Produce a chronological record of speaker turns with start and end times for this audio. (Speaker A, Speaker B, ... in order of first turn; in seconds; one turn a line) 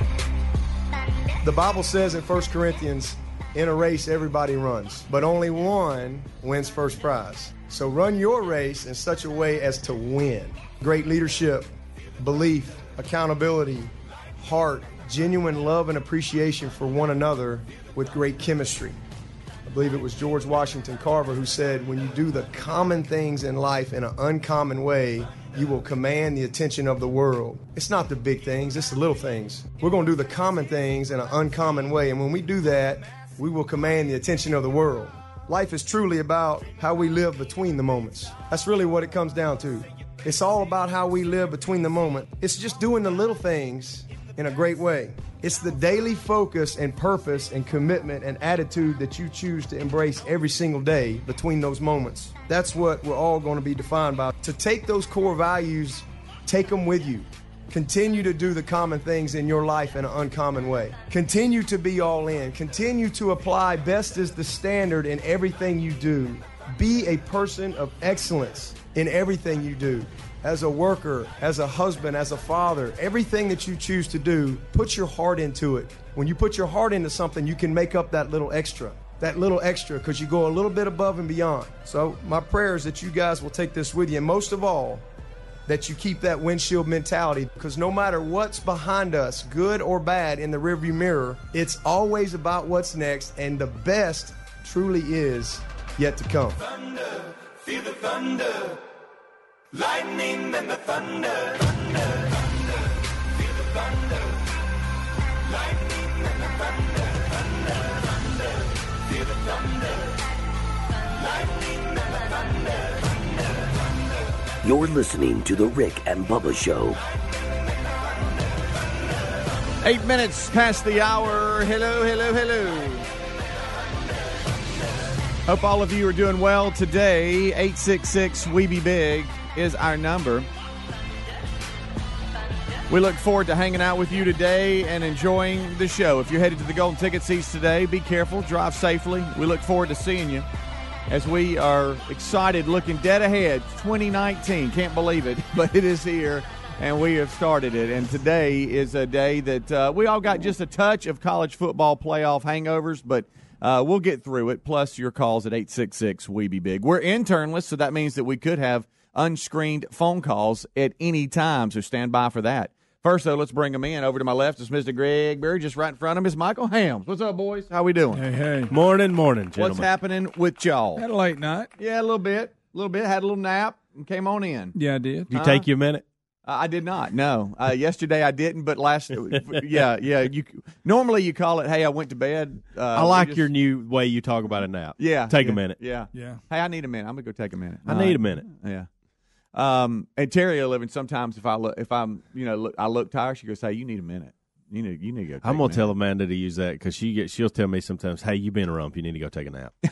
Speaker A: 1.4-19.0
Speaker A: 19.7-85.0
Speaker A: 85.7-96.6
Speaker B: 96.6-98.8
Speaker B: 99.7-102.5
Speaker B: 103.4-104.4
Speaker B: 105.5-108.5
Speaker B: 109.0-110.1
Speaker B: 111.2-113.0
Speaker C: 114.6-117.0
Speaker D: 119.8-123.0
Speaker D: 125.5-130.5
Speaker D: 132.9-140.5
Speaker D: 141.1-168.2
Speaker E: 168.1-168.7
Speaker F: 168.7-169.9
Speaker D: 169.6-171.0
Speaker E: 170.9-171.7
Speaker D: 171.8-174.7
Speaker E: 174.7-175.4
Speaker F: 175.3-176.0
Speaker D: 175.3-175.6
Speaker D: 176.4-183.4
Speaker F: 179.3-179.8
Speaker F: 182.9-185.8
Speaker D: 185.0-188.9
Speaker E: 186.1-186.4
Speaker F: 187.9-188.4
Speaker D: 189.5-195.9
Speaker F: 195.4-199.7